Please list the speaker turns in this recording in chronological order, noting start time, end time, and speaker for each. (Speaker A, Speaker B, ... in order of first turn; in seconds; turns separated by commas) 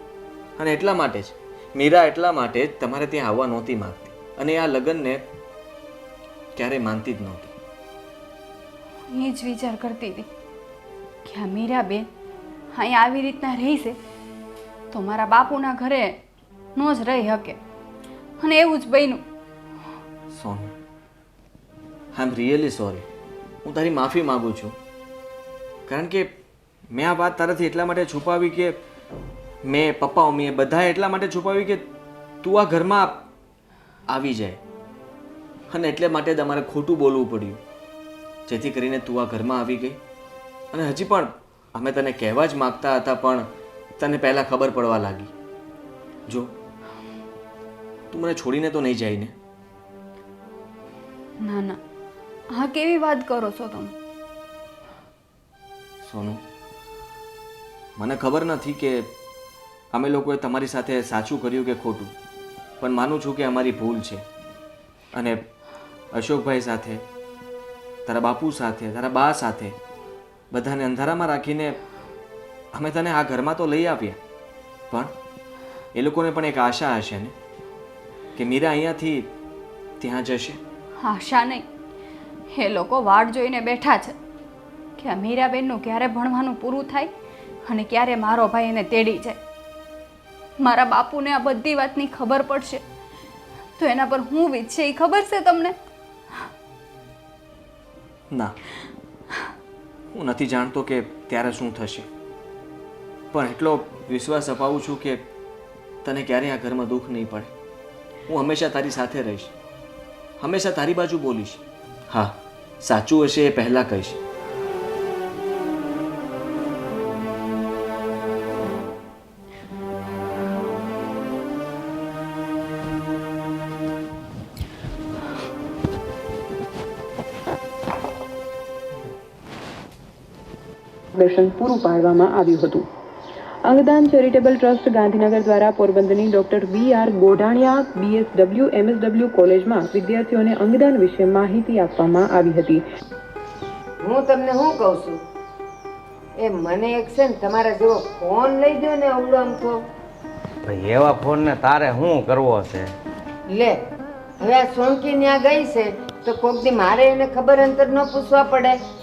Speaker A: 0.6-5.2, Speaker A: 6.6-7.5, Speaker B: 9.1-10.3, Speaker B: 11.2-12.1, Speaker B: 12.7-14.0, Speaker B: 14.9-16.2, Speaker B: 16.8-17.6, Speaker B: 18.4-19.2, Speaker A: 20.3-20.7, Speaker A: 22.1-23.1, Speaker A: 23.6-24.8, Speaker A: 25.9-26.3, Speaker A: 26.9-28.8, Speaker A: 29.6-31.8, Speaker A: 32.4-33.2, Speaker A: 34.1-34.6, Speaker A: 35.7-37.6, Speaker A: 38.5-40.0, Speaker A: 40.7-43.5, Speaker A: 44.0-45.3, Speaker A: 46.3-46.5, Speaker A: 48.1-49.4, Speaker B: 51.4-51.8, Speaker B: 52.5-53.9, Speaker A: 56.0-56.4, Speaker A: 58.0-59.1, Speaker A: 59.9-62.1, Speaker A: 62.8-64.2, Speaker A: 65.1-65.4, Speaker A: 66.1-67.0, Speaker A: 68.1-69.8, Speaker A: 70.5-71.8, Speaker A: 72.7-74.2, Speaker A: 75.9-77.3, Speaker A: 78.3-79.3, Speaker A: 80.0-80.6, Speaker B: 81.0-81.7, Speaker B: 82.5-84.2, Speaker B: 85.0-87.1, Speaker B: 87.7-89.4, Speaker B: 90.6-92.8, Speaker B: 93.8-95.8, Speaker A: 98.3-98.6, Speaker A: 100.1-102.1, Speaker A: 103.3-105.2, Speaker A: 106.0-107.5, Speaker A: 108.3-109.5, Speaker A: 110.4-114.2, Speaker C: 131.2-132.8, Speaker C: 133.7-142.8, Speaker D: 144.0-145.2, Speaker D: 146.4-149.8, Speaker E: 150.7-152.8, Speaker D: 153.5-153.8, Speaker D: 154.4-158.8